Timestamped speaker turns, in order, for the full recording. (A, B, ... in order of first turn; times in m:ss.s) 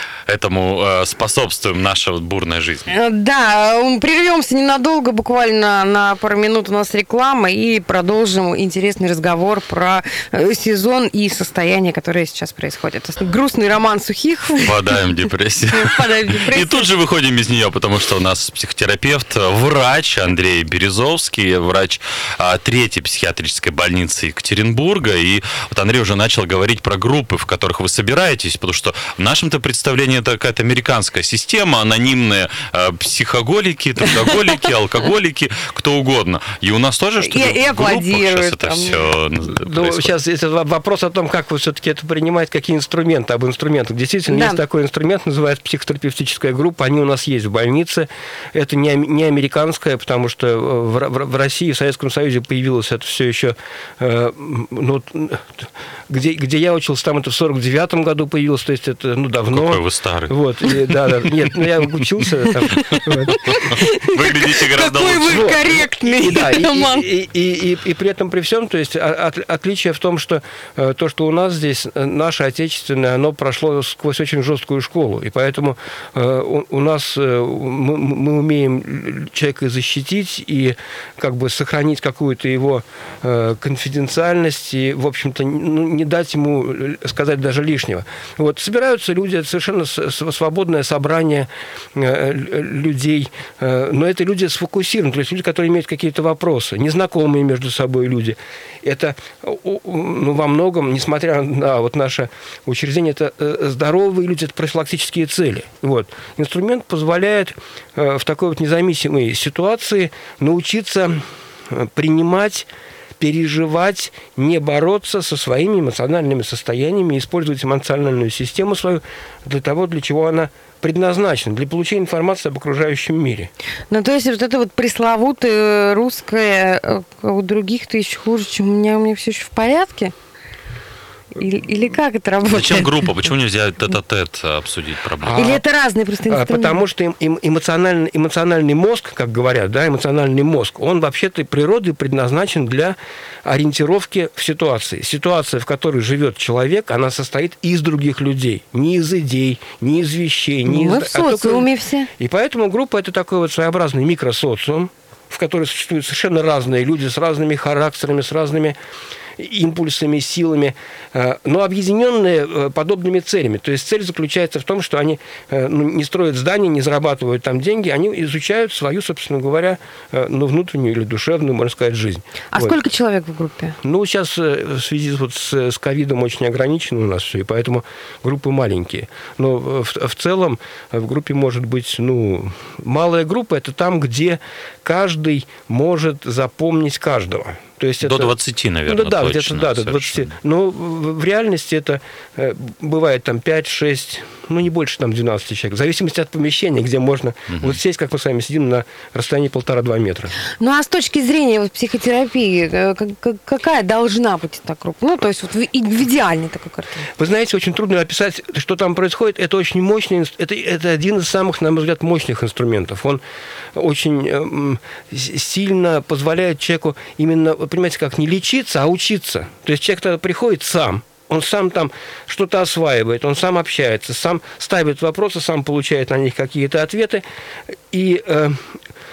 0:00.3-0:02.9 A
0:02.9-0:14.7 B
0:14.6-0:40.1 A
0:15.7-0:16.9 B
0:34.2-0:34.5 B
0:37.2-0:39.0 B
0:39.5-1:03.4 C
0:44.3-0:44.6 B
0:59.5-1:00.3 A
1:02.9-1:05.5 A
1:03.3-1:07.0 B
1:05.2-1:52.7 C
1:53.2-2:03.5 C
2:03.9-2:10.1 B
2:11.4-2:13.2 B
2:12.5-2:15.4 A
2:15.2-2:15.6 C
2:15.4-2:16.8 B
2:16.3-2:38.8 C
2:30.7-2:32.1 B
2:39.4-2:52.8 C
2:52.5-2:53.8 B
2:53.8-3:08.3 C
3:08.0-3:10.3 A
3:08.9-3:20.3 C
3:17.5-3:17.8 A
3:20.6-3:27.0 B
3:27.2-3:33.2 C
3:33.7-3:48.8 C